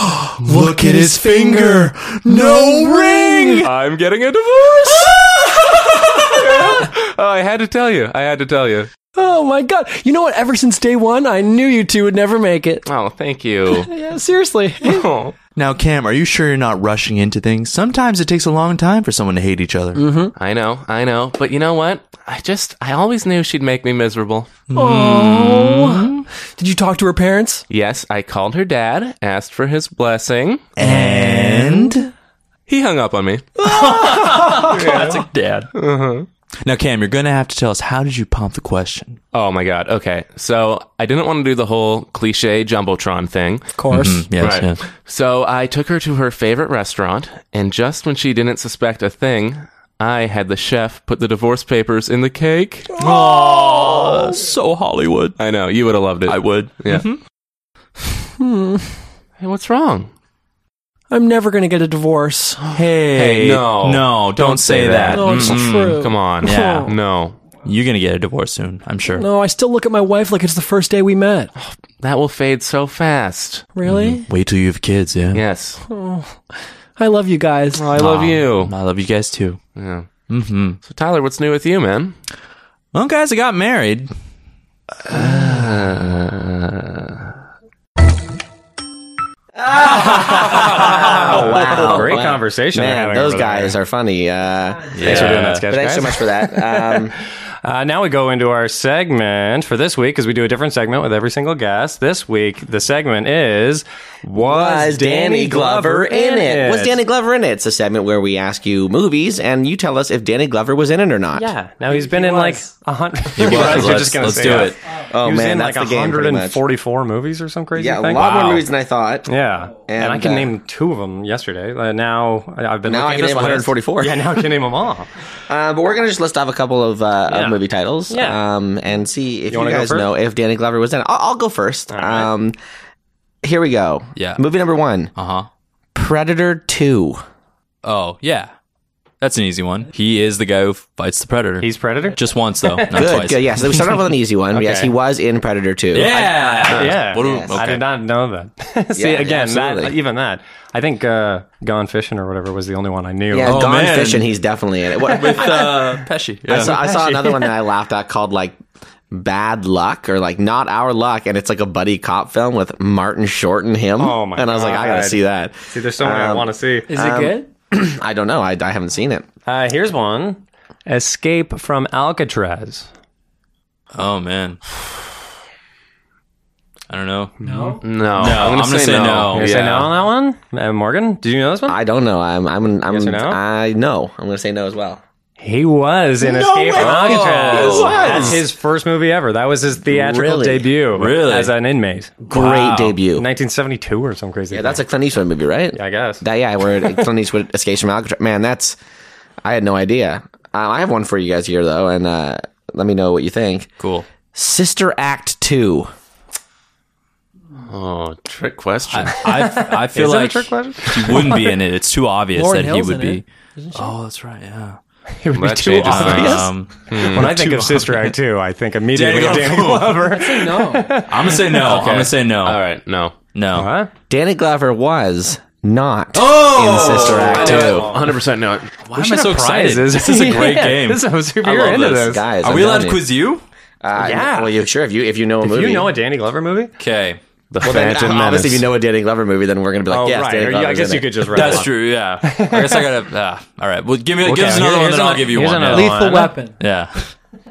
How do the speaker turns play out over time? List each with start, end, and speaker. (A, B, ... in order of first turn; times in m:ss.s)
0:00.2-0:03.7 A
0:00.7-0:02.9 B
0:02.3-0:08.8 C
0:09.2-0:12.9 A
0:12.9-0:13.9 C
0:13.7-0:15.1 A
0:15.6-0:20.0 B
0:20.0-0:20.3 A
0:20.4-0:24.6 C
0:24.7-0:26.2 B
0:24.7-0:27.6 A
0:27.7-0:30.7 C
0:30.8-0:32.1 B
0:30.8-0:32.1 A
0:32.7-0:33.7 C
0:33.6-0:35.7 B
0:34.5-0:35.0 A
0:35.8-0:36.3 C
0:36.6-0:39.2 B
0:39.3-0:43.7 C
0:43.8-0:44.3 A
0:43.9-0:44.8 B
0:44.4-0:52.9 C
0:53.0-0:55.4 B
0:53.0-0:54.2 A
0:55.4-0:57.1 C
0:56.3-0:57.2 B
0:58.4-0:59.0 A
0:59.4-1:00.1 C
1:01.1-1:02.6 A
1:02.6-1:07.4 C
1:02.7-1:06.9 B
1:05.1-1:06.9 A
1:07.6-1:09.2 B
1:09.1-1:11.5 A
1:11.6-1:13.7 C
1:13.8-1:14.3 A
1:13.8-1:15.4 B
1:15.3-1:15.8 C
1:15.9-1:17.9 A
1:17.7-1:18.7 C
1:18.0-1:19.6 B
1:19.8-1:20.1 C
1:20.3-1:20.8 B
1:20.8-1:22.2 C
1:22.9-1:24.1 B
1:25.0-1:27.3 C
1:29.6-1:37.2 D
1:30.4-1:33.8 E
1:35.0-1:35.7 B
1:35.0-1:37.1 E
1:37.6-1:47.0 E
1:44.4-1:51.5 D
1:51.4-1:58.6 E
1:51.9-1:52.6 A
1:53.4-1:54.8 B
1:53.4-1:54.1 D
1:55.1-1:56.6 D
1:57.8-2:00.5 D
1:59.3-2:05.1 E
2:02.8-2:04.4 D
2:05.5-2:12.6 D
2:07.3-2:08.4 E
2:09.5-2:10.1 E
2:11.9-2:12.3 E
2:13.4-2:15.1 D
2:14.2-2:14.4 B
2:15.2-2:15.5 B
2:16.0-2:17.2 D
2:17.8-2:18.5 B
2:19.2-2:23.4 B
2:21.6-2:23.2 E
2:22.9-2:27.7 D
2:24.5-2:24.9 E
2:25.9-2:27.8 B
2:26.7-2:33.6 E
2:29.0-2:30.0 D
2:33.3-2:36.0 D
2:33.4-2:34.3 B
2:35.0-2:36.8 B
2:36.5-2:38.6 D
2:36.5-2:37.4 E
2:39.1-2:49.3 D
2:44.0-2:46.9 E
2:46.9-2:47.5 A
2:49.5-2:52.9 E
2:53.9-2:54.6 B
2:56.9-2:57.4 B
2:57.4-2:57.8 E
2:57.4-2:57.8 A
2:57.8-2:59.9 C
2:58.2-2:59.6 B
2:59.3-3:01.8 E
3:01.7-3:05.0 D
3:02.9-3:03.4 E
3:05.4-3:14.8 E
3:06.2-3:08.5 D
3:06.7-3:08.4 B
3:09.9-3:10.7 D
3:10.9-3:11.5 B
3:12.3-3:13.3 D
3:12.4-3:12.9 B
3:14.5-3:18.8 D
3:15.7-3:16.2 E
3:19.4-3:23.7 D
3:23.8-3:24.1 B
3:24.3-3:25.9 D
3:27.6-3:29.2 C
3:28.9-3:33.2 B
3:29.3-3:31.5 E
3:32.3-3:34.0 A
3:33.8-3:34.8 B
3:35.2-3:41.6 E
3:35.3-3:37.5 C
3:35.8-3:38.1 B
3:38.9-3:40.1 B
3:40.1-3:41.0 A
3:41.1-3:42.6 B
3:41.6-3:43.2 C
3:43.3-3:43.7 B
3:43.5-3:43.9 E
3:44.1-3:47.9 D
3:46.1-3:48.0 B
3:47.3-3:48.0 E
3:47.4-3:48.7 C
3:48.9-3:51.7 B
3:48.9-3:52.3 E
3:51.4-3:53.1 D
3:52.4-3:53.4 B
3:53.8-3:56.0 D
3:54.0-3:54.6 E
3:55.4-3:56.7 E
3:56.8-3:57.2 B
3:57.5-3:58.7 C
3:57.6-4:01.6 D
3:59.9-4:02.8 E
4:01.3-4:07.1 B
4:04.2-4:06.4 E
4:05.7-4:06.6 A